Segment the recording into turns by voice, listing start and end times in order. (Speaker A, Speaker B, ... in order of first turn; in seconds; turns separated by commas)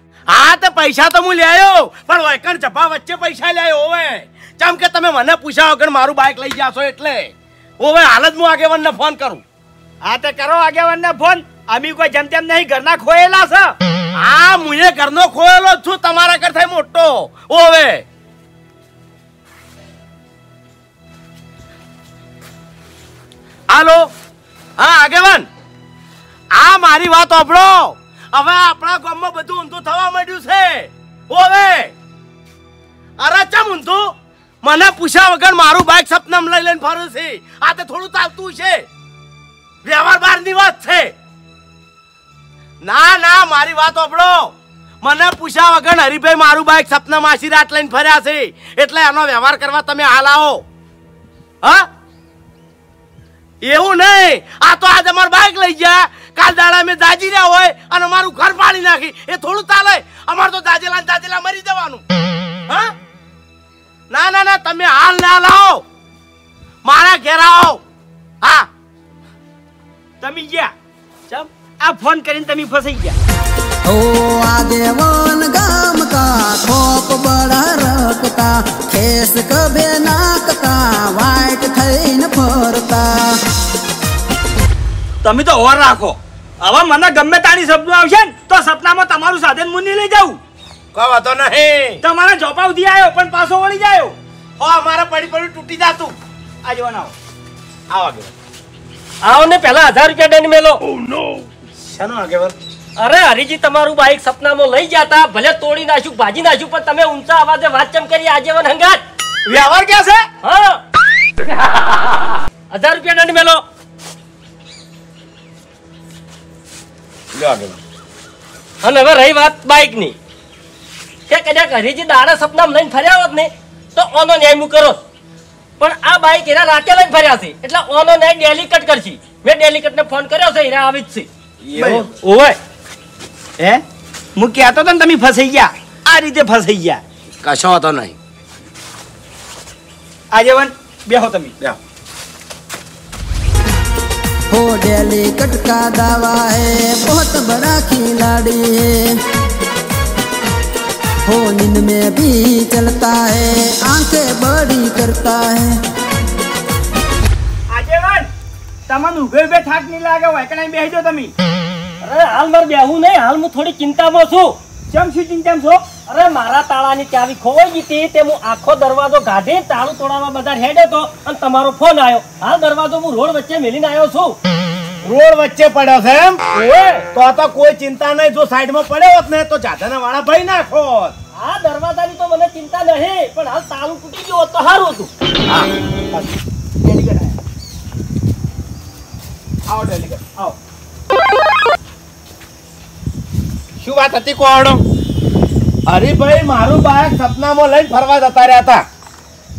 Speaker A: 0.3-9.4, Speaker B: 10.0-13.7, Speaker A: 14.2-18.0, Speaker A: 23.7-24.1, Speaker A: 24.8-25.5, Speaker A: 26.5-31.9, Speaker A: 33.2-38.9, Speaker A: 39.8-41.1, Speaker A: 42.8-50.6, Speaker A: 51.6-51.9, Speaker A: 53.6-62.0, Speaker A: 62.7-62.9, Speaker A: 64.1-65.8, Speaker A: 66.8-67.8, Speaker A: 68.4-68.7, Speaker B: 70.2-70.7, Speaker B: 71.3-73.2, Speaker C: 73.8-83.4, Speaker B: 85.2-90.4, Speaker A: 90.9-92.0, Speaker B: 92.0-94.2, Speaker A: 94.6-96.2, Speaker B: 96.6-97.1, Speaker A: 97.9-98.3, Speaker D: 99.2-100.8, Speaker A: 101.8-102.5, Speaker D: 103.0-109.0, Speaker B: 109.5-110.2, Speaker D: 110.4-110.8, Speaker D: 112.7-113.6, Speaker A: 117.4-117.7, Speaker D: 118.8-120.2, Speaker D: 121.3-125.0, Speaker D: 125.8-131.3, Speaker A: 131.7-132.1, Speaker B: 131.7-132.6, Speaker B: 134.3-137.0, Speaker A: 137.4-138.2, Speaker B: 140.3-141.5, Speaker C: 144.5-149.2, Speaker C: 151.2-155.8, Speaker B: 157.7-158.3, Speaker B: 158.9-161.3, Speaker D: 162.0-164.6, Speaker B: 164.9-165.9, Speaker D: 166.1-174.4, Speaker A: 175.0-176.4, Speaker D: 176.5-177.1, Speaker A: 177.1-181.1, Speaker D: 181.3-185.1, Speaker B: 186.8-187.4, Speaker B: 189.7-190.5, Speaker A: 193.8-194.8, Speaker A: 195.9-198.8